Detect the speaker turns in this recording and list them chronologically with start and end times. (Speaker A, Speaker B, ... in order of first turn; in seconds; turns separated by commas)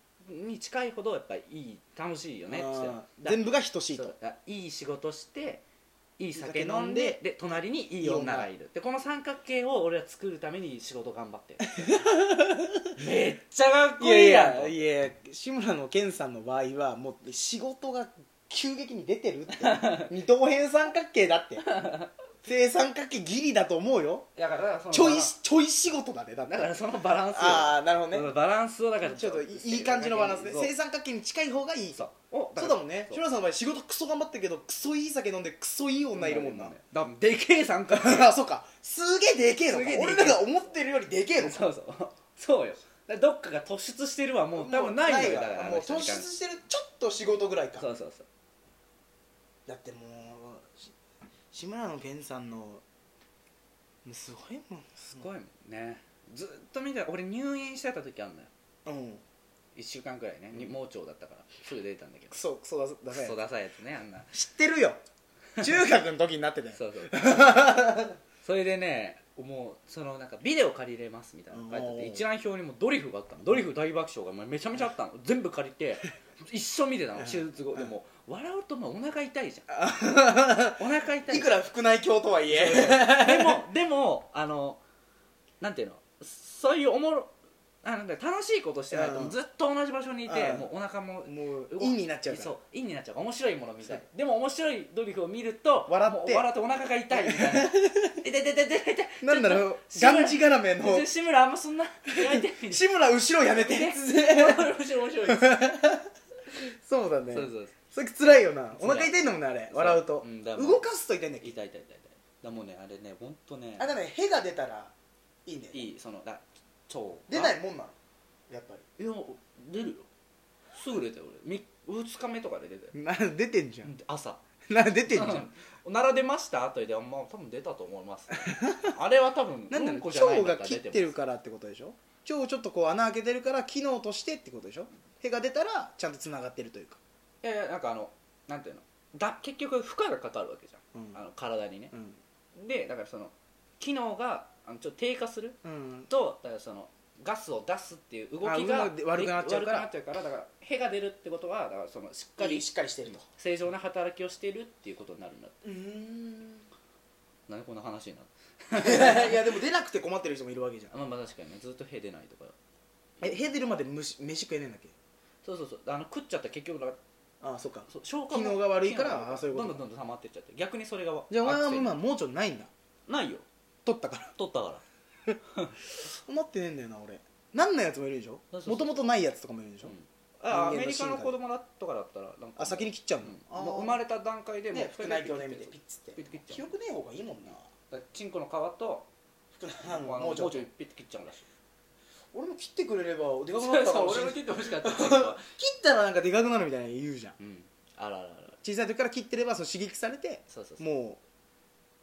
Speaker A: 0.2-5.6, Speaker B: 2.5-4.1, Speaker A: 6.2-12.0, Speaker B: 6.3-7.2, Speaker B: 8.0-8.5, Speaker B: 11.8-12.9, Speaker A: 12.9-14.8, Speaker B: 14.0-21.6, Speaker A: 19.6-20.1, Speaker A: 21.6-22.1, Speaker B: 22.4-24.3, Speaker A: 24.4-25.3, Speaker B: 24.9-26.7, Speaker A: 26.5-30.7, Speaker B: 27.3-28.3, Speaker B: 29.0-32.0, Speaker A: 31.9-33.2, Speaker B: 32.6-36.8, Speaker A: 36.1-38.3, Speaker B: 37.9-41.6, Speaker A: 39.6-40.5, Speaker A: 41.4-46.3, Speaker B: 44.5-47.9, Speaker A: 47.8-48.2, Speaker B: 49.7-50.9, Speaker B: 51.5-52.8, Speaker B: 54.0-55.2, Speaker A: 55.0-58.5, Speaker B: 58.9-59.2, Speaker A: 59.7-62.4, Speaker B: 62.3-63.4, Speaker A: 63.1-64.3, Speaker B: 64.3-65.0, Speaker B: 65.6-68.2, Speaker A: 66.7-67.8, Speaker A: 68.4-79.7, Speaker B: 71.5-72.2, Speaker B: 77.2-77.9, Speaker B: 79.7-83.6, Speaker A: 80.6-81.5, Speaker A: 82.5-84.8, Speaker A: 85.6-102.9, Speaker B: 88.9-89.4, Speaker B: 90.2-90.7, Speaker B: 91.2-92.5, Speaker B: 95.9-96.5, Speaker B: 97.1-98.2, Speaker B: 99.2-101.1, Speaker B: 102.0-111.5, Speaker A: 103.4-105.7, Speaker A: 107.3-107.7, Speaker A: 108.7-110.9, Speaker A: 111.4-113.9, Speaker B: 113.8-114.9, Speaker B: 115.5-115.9, Speaker A: 115.7-117.6, Speaker B: 117.3-117.9, Speaker B: 118.5-118.8, Speaker A: 119.0-120.1, Speaker A: 120.7-122.9, Speaker B: 122.9-123.9, Speaker A: 123.8-124.4, Speaker B: 124.7-125.5, Speaker A: 125.1-131.2, Speaker B: 128.4-128.9, Speaker B: 129.7-137.0, Speaker A: 137.4-141.9, Speaker B: 140.9-141.2, Speaker B: 141.9-142.2, Speaker A: 142.5-155.6, Speaker B: 145.6-146.1, Speaker B: 148.4-149.9, Speaker B: 152.4-153.2, Speaker B: 155.6-156.7, Speaker A: 157.5-159.4, Speaker B: 158.7-160.9, Speaker A: 160.9-162.5, Speaker B: 163.2-164.9, Speaker A: 165.4-167.0, Speaker B: 167.4-169.8, Speaker A: 167.9-172.0, Speaker B: 171.3-172.7, Speaker A: 173.1-173.4, Speaker B: 173.8-174.3, Speaker A: 174.4-174.8, Speaker B: 176.0-179.9, Speaker A: 178.5-179.0, Speaker A: 179.8-186.7, Speaker B: 180.5-181.3, Speaker B: 182.6-184.0, Speaker B: 184.7-187.6, Speaker A: 187.9-189.1, Speaker B: 189.5-190.7, Speaker A: 189.8-191.4, Speaker B: 192.3-197.3, Speaker A: 193.5-195.4, Speaker A: 197.4-198.6, Speaker B: 198.6-201.2, Speaker A: 200.5-200.8